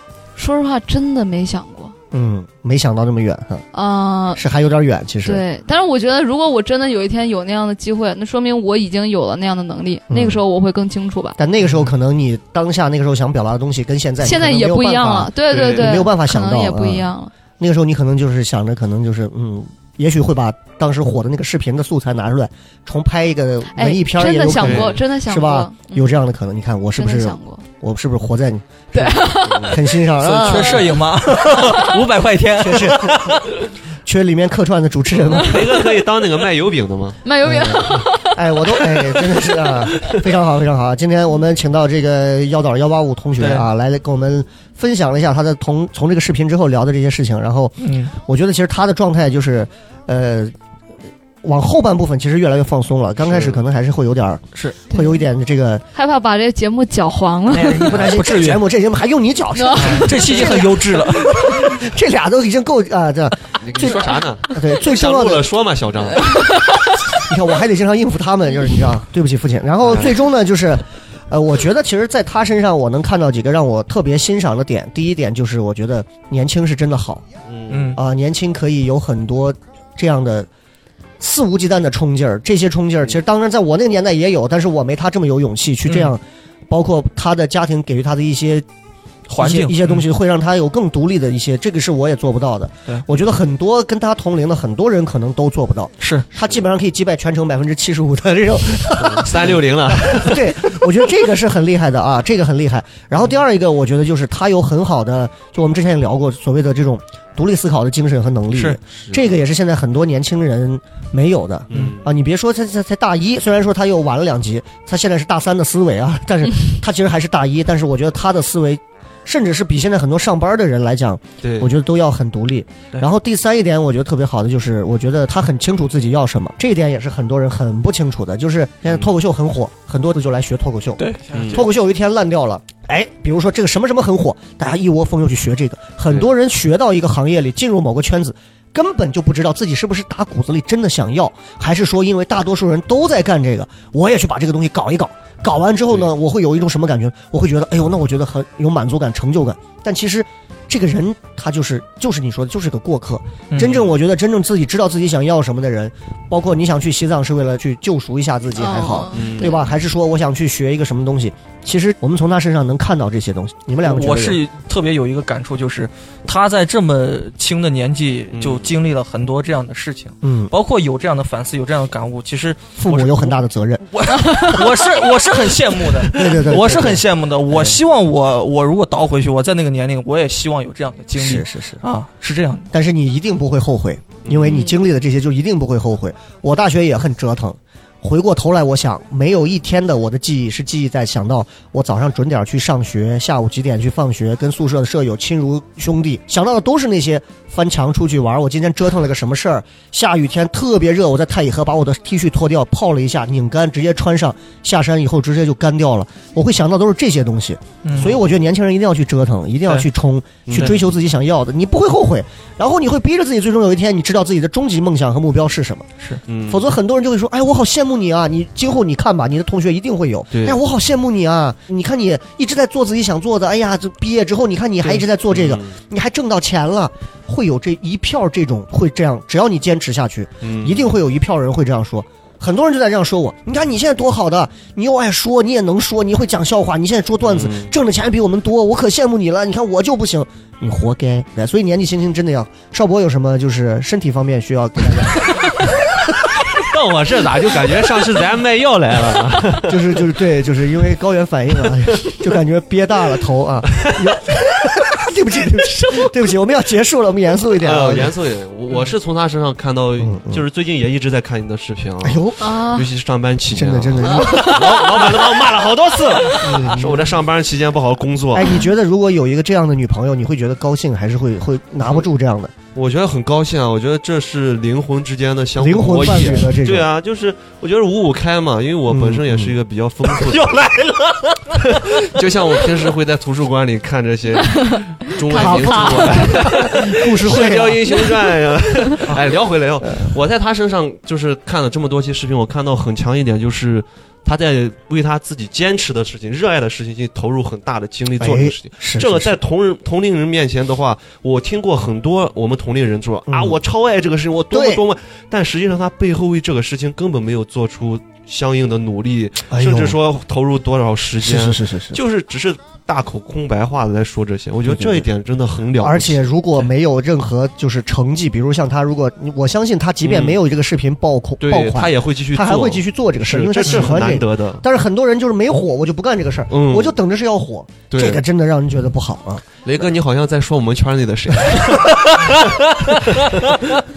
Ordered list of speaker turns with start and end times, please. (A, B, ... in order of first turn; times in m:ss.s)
0:00.4-0:01.9 A
0:02.1-0:03.6 B
0:03.7-0:04.4 A
0:04.4-0:05.4 B
0:05.2-0:11.4 A
0:10.1-0:10.4 B
0:11.4-0:31.0 B
0:14.2-0:17.3 A
0:15.5-0:16.0 C
0:23.7-0:26.2 A
0:24.6-0:25.0 C
0:27.0-0:27.6 A
0:28.9-0:29.8 A
0:29.4-0:29.8 C
0:30.2-0:33.6 D
0:30.5-0:30.8 A
0:31.5-0:32.0 A
0:32.6-0:33.4 B
0:34.0-0:35.6 B
0:35.1-0:37.2 C
0:37.2-0:39.1 A
0:37.4-0:50.6 B
0:43.4-0:43.7 D
0:47.8-0:48.1 D
0:51.4-0:55.8 B
0:53.3-0:53.6 C
0:54.9-0:55.2 A
0:56.0-0:57.9 A
0:57.5-0:58.7 D
0:57.8-1:05.5 B
0:59.5-1:00.5 A
0:59.8-1:01.7 D
1:03.6-1:06.5 C
1:06.2-1:07.0 A
1:07.2-1:17.2 B
1:09.8-1:10.2 C
1:17.5-1:18.0 C
1:17.7-1:18.0 D
1:18.0-1:20.5 B
1:21.2-1:28.7 B
1:29.3-2:44.4 B
1:29.3-1:30.0 D
1:36.0-1:36.3 D
1:39.0-1:40.8 C
1:48.5-1:48.8 D
1:48.9-1:49.2 C
1:51.7-1:52.1 C
1:51.7-1:52.0 D
2:01.4-2:01.7 C
2:11.0-2:11.7 D
2:11.3-2:11.7 C
2:33.5-2:33.8 D
2:38.6-2:39.7 A
2:39.1-2:39.5 C
2:43.8-2:53.4 D
2:48.3-2:48.7 C
2:50.2-2:50.5 B
2:52.8-2:54.8 B
2:53.9-3:02.7 D
2:56.0-2:57.8 B
3:01.2-3:01.8 B
3:02.7-3:35.9 B
3:04.2-3:04.6 C
3:04.4-3:04.8 A
3:27.8-3:28.2 D
3:30.5-3:30.8 C
3:36.3-3:36.7 C
3:36.5-4:06.3 B
3:40.3-3:40.6 C
3:45.3-3:45.7 C
3:50.4-3:50.9 C
3:57.2-3:57.7 C
4:06.4-4:10.0 C
4:09.6-4:18.1 B
4:17.6-4:28.6 C
4:20.0-4:20.4 B
4:22.0-4:22.4 B
4:22.4-4:22.9 A
4:23.5-4:25.2 B
4:26.4-4:27.2 B
4:28.3-4:32.5 B
4:32.8-4:40.5 C
4:35.6-4:36.9 B
4:38.9-4:39.6 B
4:40.3-4:42.0 D
4:41.7-5:16.3 C
4:45.2-4:46.7 A
4:45.3-4:48.1 B
4:49.8-4:50.1 B
4:58.1-4:59.4 B
5:03.3-5:03.6 B
5:04.5-5:04.8 B
5:09.5-5:10.0 B
5:11.2-5:12.0 B
5:14.7-5:15.1 B
5:15.8-5:29.4 B
5:20.0-5:20.4 C
5:21.4-5:24.6 C
5:23.7-5:24.1 D
5:26.5-5:26.9 C
5:27.9-5:28.2 C
5:29.6-5:33.5 C
5:31.5-5:32.3 B